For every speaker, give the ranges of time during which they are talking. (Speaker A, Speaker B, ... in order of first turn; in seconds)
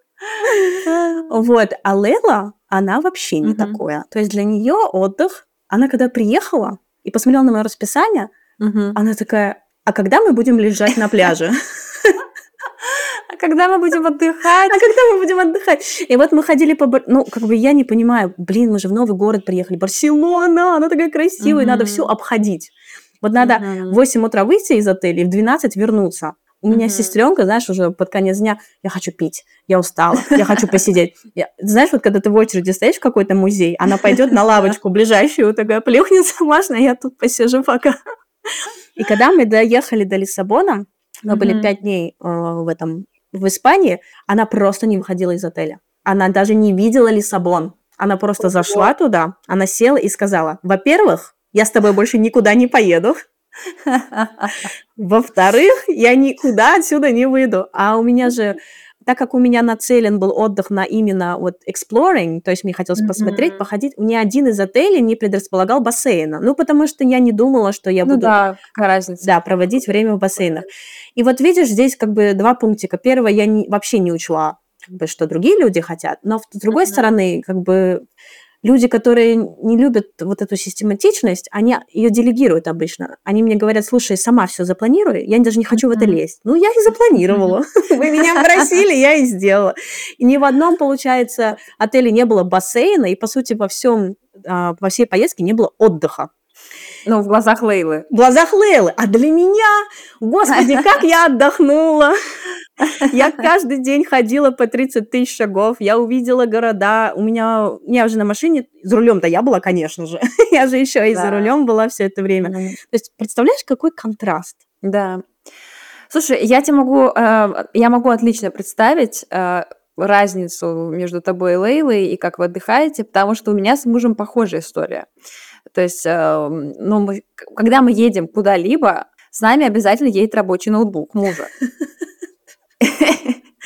Speaker A: 0.4-8.3, 8.9-12.1, 14.7-37.9, 38.5-53.1, 55.0-68.3, 69.2-78.0, 78.6-96.3, 98.1-102.1, 103.0-114.6
Speaker B: 3.4-3.8, 8.6-9.0, 12.8-14.8, 21.4-22.1, 23.4-24.0, 26.7-27.1, 30.2-30.6, 34.1-34.6, 41.3-41.7, 53.8-54.7, 63.0-63.6, 68.0-69.3, 76.7-77.0, 85.9-86.2, 88.2-88.6, 97.0-98.0, 100.5-101.0, 102.8-103.1, 111.1-111.5, 112.4-112.8, 114.8-115.2, 116.1-125.1, 125.7-131.5, 132.8-133.4